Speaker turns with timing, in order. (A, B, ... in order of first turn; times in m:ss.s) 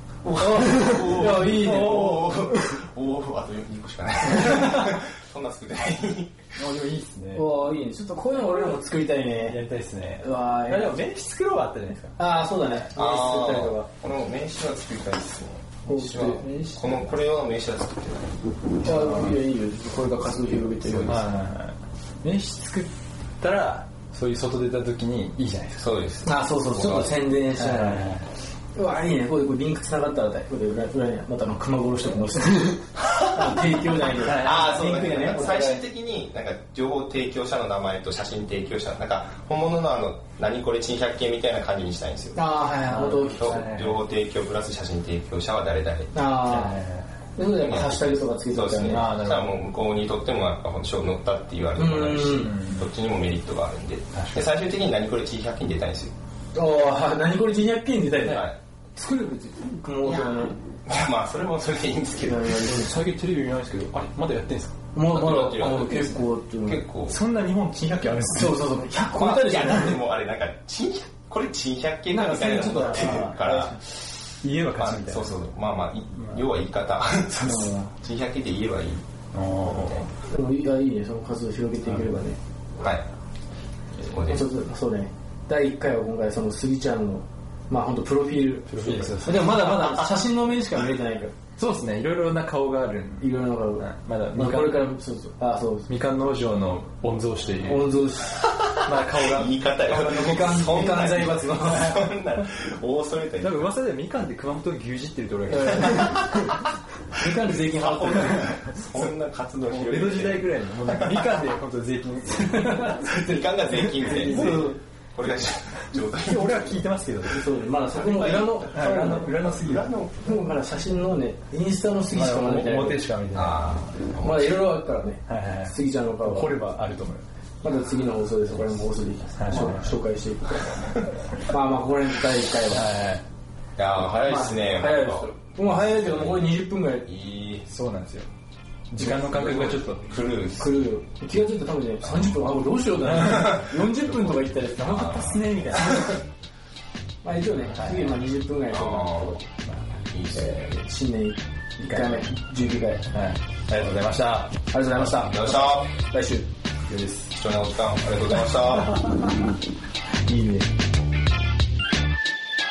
0:00.2-0:06.6 A
0:00.4-0:02.3 B
0:00.8-0:01.0 C
0:04.5-0:04.8 C
0:06.6-0:07.5 C
0:07.3-0:09.6 B
0:08.3-0:08.8 C
0:09.4-0:12.8 C
0:10.2-0:11.0 B
0:12.2-0:13.9 B
0:12.9-0:18.7 A
0:15.8-0:16.9 B
0:18.8-0:21.3 B
0:18.8-0:19.4 C
0:20.8-0:21.2 A
0:21.0-0:25.8 C
0:25.8-0:27.1 A
0:26.2-0:28.1 B
0:27.5-0:28.3 C
0:28.7-0:35.8 B
0:33.0-0:33.6 A
0:34.1-0:35.8 C
0:34.2-0:42.4 A
0:42.3-0:43.6 B
0:42.8-0:44.0 C
0:43.3-0:46.1 A
0:46.1-0:46.8 B
0:46.4-0:47.1 C
0:47.4-0:49.1 B
0:47.4-0:56.1 A
0:48.8-0:49.6 C
0:51.8-0:52.5 B
0:52.4-0:52.9 C
0:54.1-0:54.5 C
0:56.5-1:00.6 B
0:58.2-0:58.6 A
1:00.0-1:02.8 A
1:02.2-1:03.0 B
1:02.6-1:04.8 C
1:04.9-1:06.8 B
1:05.1-1:07.2 A
1:07.1-1:08.7 C
1:08.3-1:10.0 B
1:09.1-1:13.8 A
1:12.1-1:13.6 B
1:13.0-1:13.7 C
1:14.2-1:15.3 C
1:14.8-1:19.0 A
1:16.2-1:16.5 C
1:17.4-1:17.9 B
1:19.3-1:20.1 C
1:19.6-1:20.1 A
1:20.2-1:22.4 B
1:21.8-1:22.1 C
1:22.8-1:23.1 A
1:24.0-1:24.5 A
1:24.3-1:31.3 B
1:28.7-1:30.1 C
1:31.6-1:34.9 C
1:33.2-1:35.9 B
1:35.9-1:37.9 C
1:37.6-1:38.4 B
1:38.4-1:43.7 A
1:38.8-1:39.6 C
1:39.8-1:42.0 B
1:43.4-1:46.6 C
1:45.4-1:46.2 B
1:45.9-1:46.5 A
1:47.2-1:48.5 B
1:47.5-1:51.5 A
1:49.7-1:54.7 C
1:52.3-1:54.8 B
1:53.0-1:56.8 A
1:56.2-1:57.4 C
1:57.3-1:59.4 B
1:57.4-2:00.5 A
1:58.6-1:59.9 C
2:00.2-2:03.0 B
2:02.1-2:03.6 C
2:03.3-2:04.7 A
2:04.2-2:06.6 B
2:05.3-2:07.2 C
2:07.6-2:10.6 B
2:09.4-2:09.9 C
2:11.5-2:12.9 B
2:12.7-2:13.2 C
2:13.8-2:17.7 A
2:14.2-2:17.0 B
2:17.7-2:18.3 C
2:18.9-2:20.0 C
2:19.1-2:20.9 A
2:20.6-2:25.9 B
2:22.0-2:22.5 A
2:23.0-2:23.6 C
2:23.3-2:26.2 A
2:24.9-2:26.2 C
2:27.2-2:29.4 B
2:27.7-2:28.2 C
2:28.7-2:29.4 A
2:30.1-2:30.6 A
2:30.3-2:33.0 B
2:31.8-2:32.2 C
2:33.1-2:34.5 C
2:34.7-2:36.5 B
2:35.0-2:35.9 A
2:36.9-2:37.3 C
2:37.3-2:39.2 A
2:40.3-2:40.7 B